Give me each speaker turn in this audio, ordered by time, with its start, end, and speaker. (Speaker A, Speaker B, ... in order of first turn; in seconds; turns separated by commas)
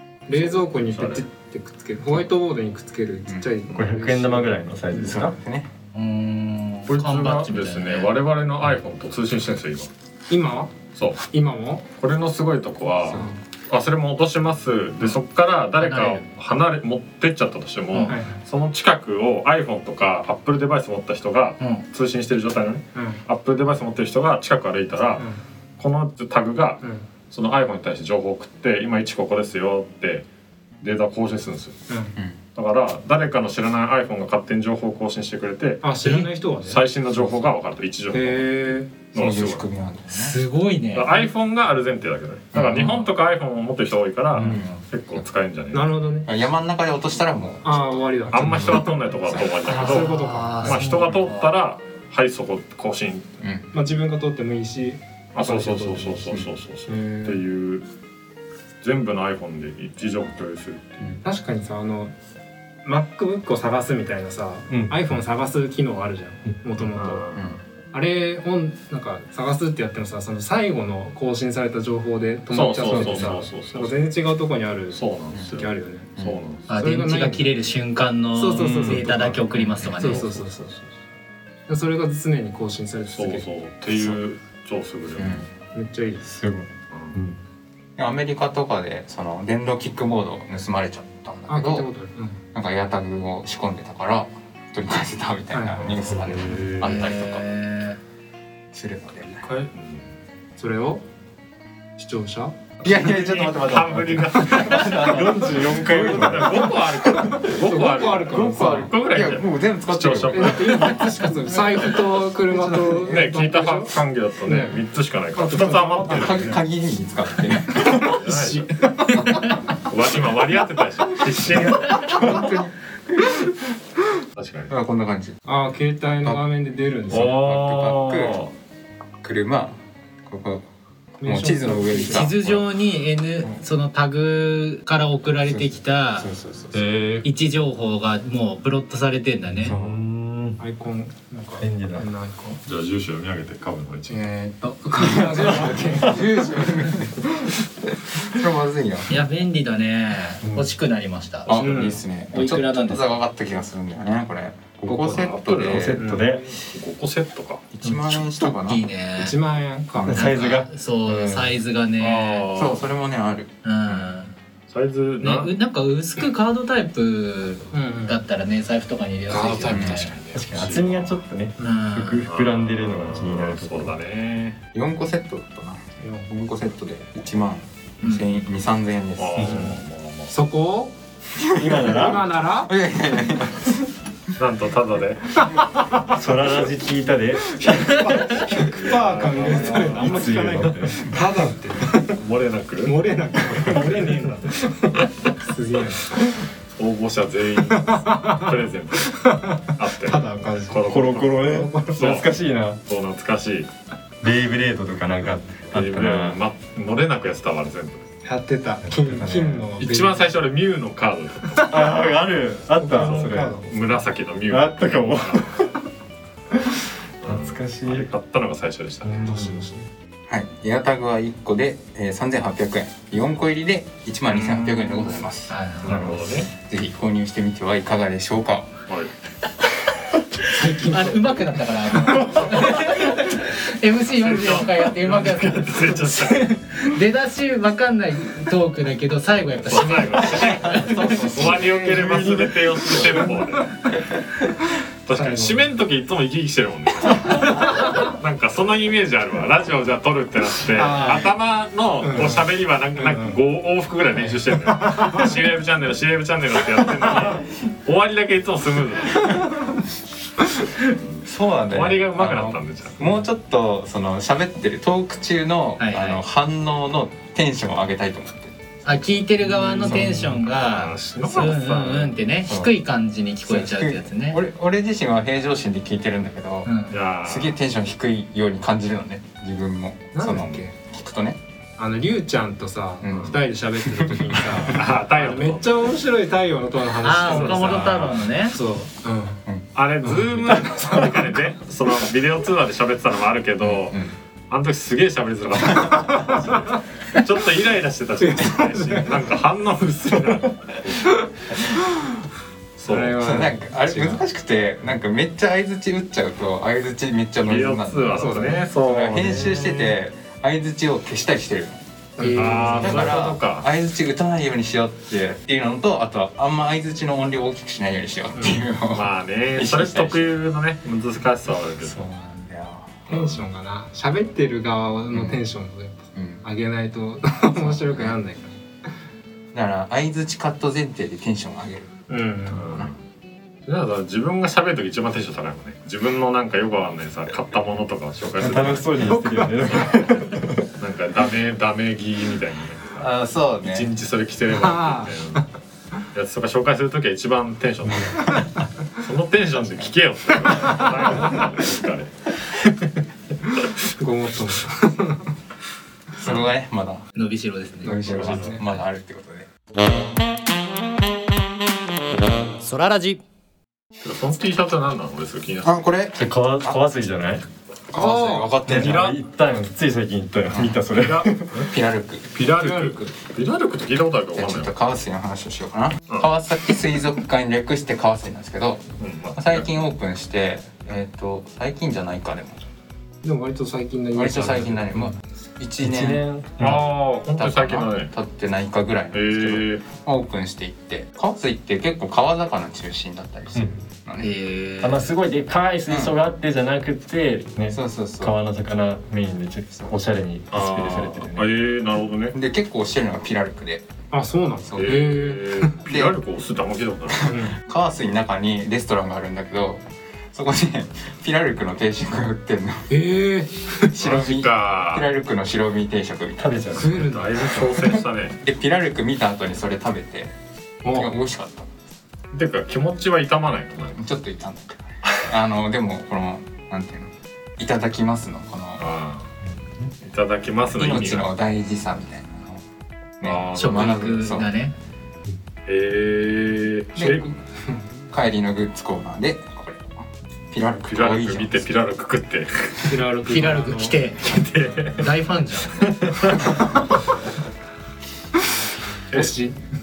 Speaker A: 0.3-4.7, Speaker B: 0.5-1.2, Speaker C: 3.3-3.6, Speaker D: 3.7-5.4, Speaker C: 4.9-5.7, Speaker E: 5.9-8.1, Speaker B: 6.9-9.9, Speaker A: 10.3-10.7, Speaker B: 10.9-11.2, Speaker A: 11.3-11.8, Speaker B: 12.0-30.2, Speaker C: 13.1-13.3, Speaker E: 15.8-16.2, Speaker E: 17.9-18.2, Speaker A: 18.1-18.4, Speaker E: 21.6-21.8, Speaker B: 30.8-31.8, Speaker B: 32.5-38.5, Speaker A: 35.8-36.8, Speaker A: 38.1-39.0, Speaker B: 39.1-39.6, Speaker C: 39.1-40.4, Speaker E: 40.1-41.3, Speaker B: 40.9-45.9, Speaker C: 42.5-42.9, Speaker E: 44.4-44.8, Speaker C: 44.4-44.7, Speaker A: 45.7-46.3, Speaker C: 46.2-48.0, Speaker A: 47.6-49.0, Speaker B: 48.3-53.3, Speaker C: 49.3-49.7, Speaker E: 49.6-51.5, Speaker A: 49.7-51.0, Speaker C: 53.4-53.7, Speaker A: 53.7-56.2, Speaker B: 55.3-57.8, Speaker A: 56.9-57.4, Speaker B: 58.8-61.1, Speaker A: 61.2-62.1, Speaker A: 62.8-67.3, Speaker D: 64.7-64.9, Speaker B: 67.0-67.4, Speaker A: 67.9-76.1, Speaker B: 72.5-74.1, Speaker C: 72.8-73.3, Speaker B: 74.9-76.7, Speaker E: 76.7-80.4, Speaker A: 76.7-77.4, Speaker A: 78.3-79.4, Speaker D: 78.6-79.3, Speaker C: 79.5-79.9, Speaker B: 80.0-80.6, Speaker A: 80.0-80.8, Speaker A: 81.7-84.2, Speaker B: 83.1-85.5, Speaker C: 85.2-85.4, Speaker A: 85.7-86.2, Speaker D: 86.2-87.4, Speaker B: 86.9-87.2, Speaker C: 88.0-91.9, Speaker A: 91.5-92.4, Speaker C: 92.5-97.4, Speaker A: 95.5-96.0, Speaker D: 96.1-96.8, Speaker E: 96.8-98.0, Speaker C: 98.7-99.5, Speaker B: 99.4-100.0, Speaker A: 100.6-101.0, Speaker A: 102.0-102.6, Speaker C: 102.8-103.6, Speaker D: 102.8-106.7, Speaker B: 102.9-111.1, Speaker C: 104.5-105.6, Speaker A: 106.2-108.9, Speaker C: 108.3-111.1, Speaker A: 110.3-113.9, Speaker B: 113.0-116.6, Speaker A: 114.5-114.8, Speaker A: 115.3-116.6, Speaker C: 116.1-118.1, Speaker A: 117.8-119.6, Speaker B: 118.1-122.4, Speaker C: 121.5-123.4, Speaker B: 124.3-124.7, Speaker C: 124.7-125.4, Speaker A: 125.5-127.4, Speaker B: 127.1-128.5, Speaker C: 127.3-128.4, Speaker C: 129.2-130.6, Speaker A: 131.2-132.3, Speaker C: 131.2-132.6, Speaker E: 132.0-136.3, Speaker C: 135.5-136.8, Speaker B: 136.7-137.2, Speaker E: 137.2-139.8, Speaker D: 139.6-140.6, Speaker A: 140.6-142.6, Speaker D: 141.6-142.1, Speaker B: 142.6-144.2, Speaker A: 144.1-146.7, Speaker C: 144.9-147.3, Speaker C: 148.2-149.1, Speaker E: 149.1-153.1, Speaker C: 151.5-156.1, Speaker A: 151.6-152.0, Speaker D: 154.8-156.5, Speaker B: 155.0-155.9, Speaker A: 156.0-156.3, Speaker B: 156.6-157.7, Speaker C: 157.7-158.8, Speaker E: 158.1-159.3, Speaker A: 159.2-160.2, Speaker D: 160.1-161.6, Speaker E: 160.1-162.5, Speaker B: 162.0-162.8, Speaker C: 162.5-163.5, Speaker E: 163.6-164.3, Speaker B: 164.7-165.5, Speaker E: 165.2-170.2, Speaker A: 167.7-168.2, Speaker B: 169.3-171.1, Speaker C: 169.7-170.1, Speaker D: 170.3-173.9, Speaker E: 171.6-172.2, Speaker B: 172.2-174.6, Speaker C: 174.7-179.6, Speaker A: 176.0-176.3, Speaker B: 179.2-180.4, Speaker A: 180.3-180.9, Speaker C: 181.4-183.8, Speaker D: 181.5-182.2, Speaker A: 181.8-182.7, Speaker B: 184.4-185.4, Speaker D: 186.1-188.3, Speaker A: 188.0-192.1, Speaker B: 188.6-190.3, Speaker D: 189.8-191.5, Speaker B: 192.2-193.0, Speaker A: 192.8-196.2, Speaker B: 196.8-201.4, Speaker A: 197.7-198.5, Speaker A: 199.1-202.1, Speaker D: 200.9-202.8, Speaker B: 201.9-202.3, Speaker B: 202.9-203.7, Speaker D: 204.2-206.4, Speaker B: 205.7-208.0, Speaker A: 208.2-210.3, Speaker D: 208.8-209.7, Speaker B: 209.8-211.9, Speaker D: 211.7-213.6, Speaker A: 212.8-213.7, Speaker B: 212.9-215.6, Speaker D: 214.5-215.8, Speaker D: 216.5-218.1, Speaker B: 217.2-219.3, Speaker D: 219.1-219.7, Speaker A: 219.1-219.9, Speaker C: 220.3-225.5, Speaker B: 224.3-225.1, Speaker E: 225.5-226.2, Speaker D: 225.8-226.4, Speaker B: 225.8-226.5, Speaker C: 226.6-228.7, Speaker A: 230.5-231.4, Speaker E: 230.6-241.5, Speaker B: 234.1-236.6, Speaker B: 239.7-243.9, Speaker C: 240.7-242.0, Speaker A: 241.7-242.1, Speaker D: 242.0-243.0, Speaker A: 243.0-243.4, Speaker B: 245.1-259.4, Speaker A: 245.1-245.6, Speaker A: 247.4-248.1, Speaker A: 250.7-251.3, Speaker A: 252.0-252.5, Speaker A: 253.0-253.4, Speaker A: 254.8-255.3, Speaker B: 260.9-263.0, Speaker C: 261.2-268.5, Speaker E: 265.8-266.2, Speaker E: 268.8-274.4, Speaker B: 269.6-272.1, Speaker C: 273.5-276.7, Speaker E: 276.6-277.0, Speaker B: 276.9-277.6, Speaker C: 277.2-281.4, Speaker A: 280.1-280.7, Speaker A: 281.8-289.4, Speaker C: 283.0-283.4, Speaker C: 284.0-284.6, Speaker B: 284.7-285.9, Speaker E: 287.0-288.6, Speaker B: 287.2-288.2, Speaker B: 289.7-294.0, Speaker A: 290.1-291.2, Speaker C: 293.6-294.1, Speaker B: 294.5-301.1, Speaker A: 296.0-296.4, Speaker A: 298.2-299.2, Speaker A: 301.7-302.1, Speaker B: 302.8-303.3, Speaker A: 302.9-304.2, Speaker C: 303.2-319.1, Speaker B: 307.4-310.0, Speaker A: 308.2-308.7, Speaker A: 312.2-313.1, Speaker B: 312.2-313.7, Speaker B: 318.9-322.0, Speaker C: 319.6-320.2, Speaker C: 321.8-323.0, Speaker B: 323.1-323.4, Speaker A: 323.1-328.6, Speaker C: 326.1-326.4, Speaker C: 327.6-328.1, Speaker C: 329.5-331.9, Speaker A: 332.1-332.7, Speaker B: 332.5-333.0, Speaker B: 333.6-339.0, Speaker D: 338.4-340.6, Speaker A: 339.0-339.7, Speaker B: 340.8-345.4, Speaker C: 343.0-343.9, Speaker A: 344.5-345.4, Speaker B: 346.1-348.4, Speaker B: 348.9-352.3, Speaker A: 350.8-351.4, Speaker A: 353.9-355.3, Speaker C: 356.2-357.0, Speaker E: 357.1-358.2, Speaker C: 357.8-359.5, Speaker A: 358.0-358.6, Speaker B: 358.1-358.5, Speaker E: 362.6-363.2, Speaker B: 364.0-365.8, Speaker C: 365.6-366.8, Speaker D: 366.2-367.4, Speaker C: 367.9-369.0, Speaker A: 367.9-368.5, Speaker B: 368.6-369.2, Speaker D: 368.7-371.6, Speaker C: 370.5-370.8, Speaker B: 370.9-371.7, Speaker C: 371.7-372.3, Speaker B: 372.3-374.7, Speaker A: 372.4-373.1, Speaker C: 374.4-378.8, Speaker B: 379.0-379.8, Speaker C: 379.4-382.6, Speaker A: 383.2-385.1, Speaker C: 384.1-386.2, Speaker D: 385.8-386.8, Speaker B: 386.6-388.1, Speaker C: 387.4-394.3, Speaker B: 389.1-389.9, Speaker D: 393.5-393.8, Speaker E: 394.2-395.1, Speaker D: 394.8-401.5, Speaker C: 395.9-396.1, Speaker C: 397.7-398.3, Speaker B: 400.5-402.4, Speaker C: 402.3-403.9, Speaker A: 404.1-405.7, Speaker B: 404.8-407.4, Speaker C: 407.2-409.8, Speaker A: 407.3-407.5, Speaker C: 410.3-413.0, Speaker A: 412.9-413.9, Speaker C: 413.9-416.6, Speaker B: 414.0-415.1, Speaker D: 416.4-416.9, Speaker A: 416.7-417.7, Speaker B: 416.8-418.4, Speaker C: 418.4-420.3, Speaker A: 420.9-421.1, Speaker C: 420.9-421.7, Speaker B: 422.3-424.0, Speaker C: 424.0-428.8, Speaker B: 428.8-429.3, Speaker B: 430.0-431.3, Speaker C: 430.8-432.6, Speaker C: 433.2-434.5, Speaker B: 433.2-434.1, Speaker E: 433.5-434.7, Speaker B: 435.7-437.3, Speaker C: 437.0-437.3, Speaker C: 438.1-439.9, Speaker C: 440.5-441.6, Speaker B: 440.9-443.0, Speaker A: 442.8-443.9, Speaker E: 443.3-445.9, Speaker B: 444.2-445.1, Speaker B: 445.7-446.6, Speaker A: 449.1-449.6